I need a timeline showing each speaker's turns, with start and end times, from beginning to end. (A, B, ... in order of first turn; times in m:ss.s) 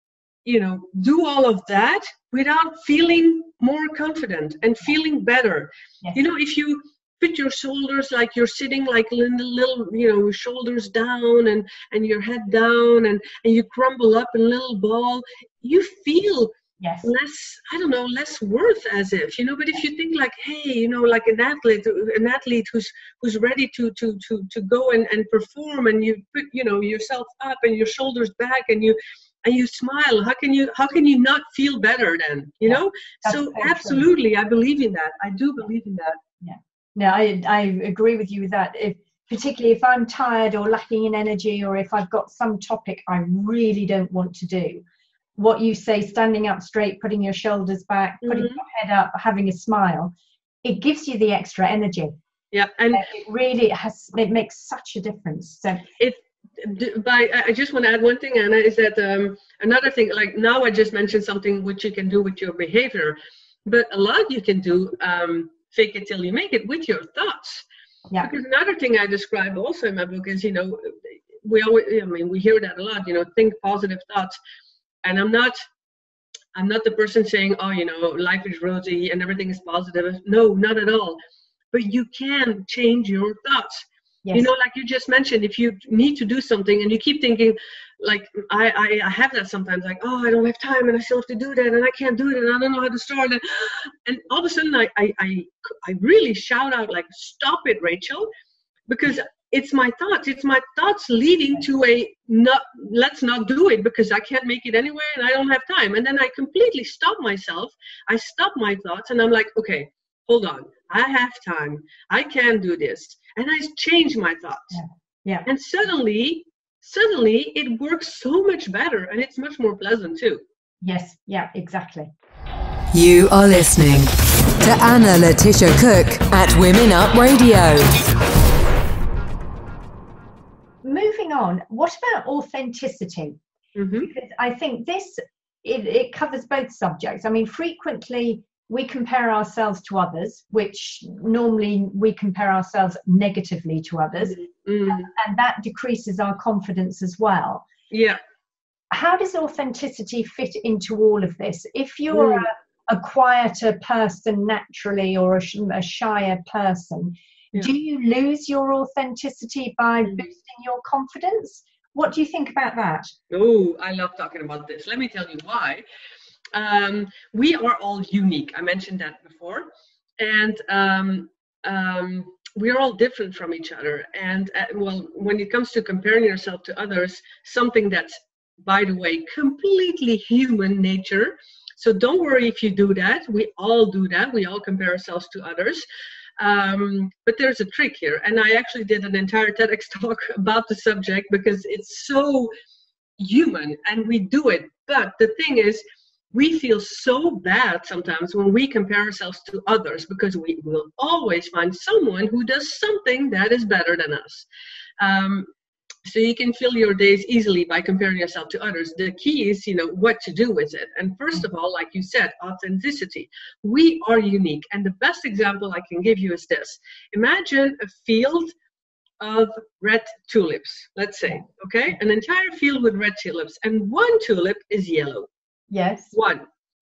0:00.4-0:36.2 A
0:16.8-0:17.1 B
0:32.6-0:34.1 B
0:36.4-0:44.8 B
0:45.4-0:52.1 B
0:48.2-0:48.6 A
0:52.5-0:53.0 A
0:52.9-0:55.8 B
0:56.0-1:07.6 A
1:08.2-1:14.4 A
1:15.0-1:15.6 A
1:16.5-1:21.2 A
1:21.7-1:38.3 A
1:24.2-1:24.5 B
1:38.9-1:54.8 A
1:54.7-1:55.5 B
1:55.5-2:00.4 A
2:00.8-2:02.1 B
2:02.9-2:07.9 C
2:10.8-2:13.4 B
2:13.8-2:14.1 A
2:14.1-2:27.6 B
2:24.2-2:25.1 A
2:27.9-2:28.2 A
2:28.9-2:43.1 B
2:32.1-2:32.5 A
2:43.3-2:45.8 A
2:46.5-3:05.9 A
3:06.4-3:12.5 A
3:13.2-3:24.5 A
3:25.0-3:25.5 A
3:26.0-3:38.5 A
3:39.2-3:45.3 A
3:45.7-3:46.1 B
3:46.1-3:46.5 A